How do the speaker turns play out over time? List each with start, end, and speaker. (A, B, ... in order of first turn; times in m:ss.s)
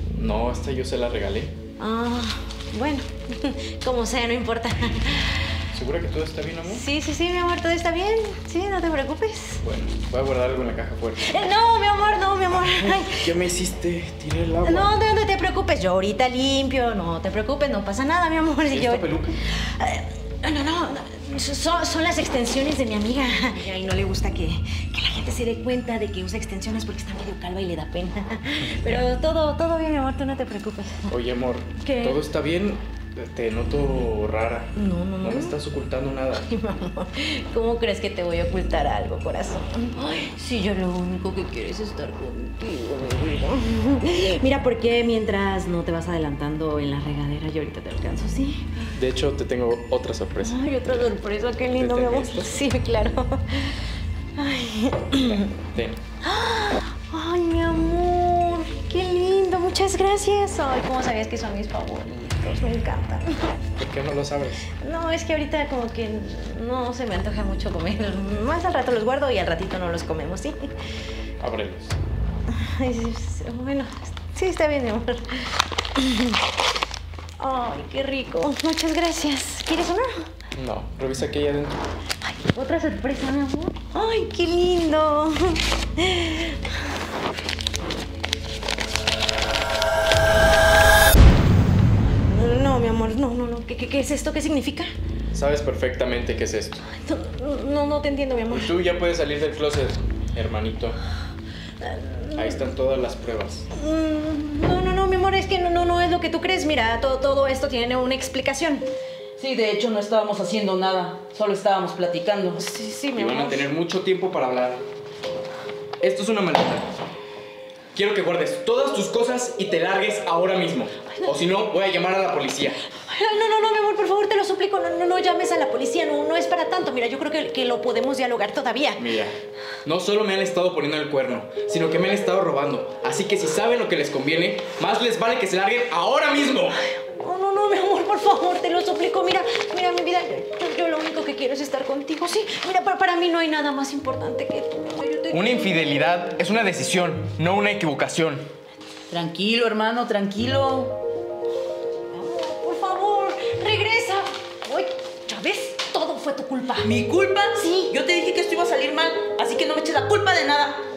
0:00.1-0:01.5 A
0:01.8-0:05.5 B
0:05.7-0:06.8 A
0:06.6-0:09.6 B
0:09.6-0:11.4 A
0:11.2-0:13.3 B
0:12.5-0:14.9 A
0:14.6-0:31.1 B
0:18.7-0:19.4 A
0:31.1-0:36.5 A
0:31.8-0:32.2 B
0:34.8-0:35.6 B
0:36.3-0:48.9 B
0:49.0-0:50.9 A
0:50.4-0:53.8 B
0:51.8-0:52.6 A
0:54.4-0:55.6 B
0:55.1-0:56.0 A
0:56.2-1:03.6 B
1:03.8-1:04.7 A
1:04.8-1:10.7 B
1:11.4-1:12.0 A
1:12.5-1:16.4 B
1:17.4-1:20.3 B
1:20.5-1:21.9 A
1:22.2-1:27.0 B
1:32.3-1:34.9 B
1:35.3-1:36.8 A
1:36.8-1:38.7 B
1:38.5-1:41.0 A
1:41.8-1:42.6 B
1:42.3-1:43.7 A
1:43.7-1:48.8 B
1:49.4-1:52.6 C
1:52.6-1:53.7 B
1:53.1-1:54.8 A
1:56.0-1:56.9 A
1:57.9-2:02.8 A
2:02.9-2:09.0 B
2:09.0-2:16.8 A
2:16.9-2:25.8 B
2:25.3-2:28.5 A
2:29.1-2:31.0 C
2:32.1-2:36.9 B
2:36.8-2:40.8 C
2:37.5-2:37.9 B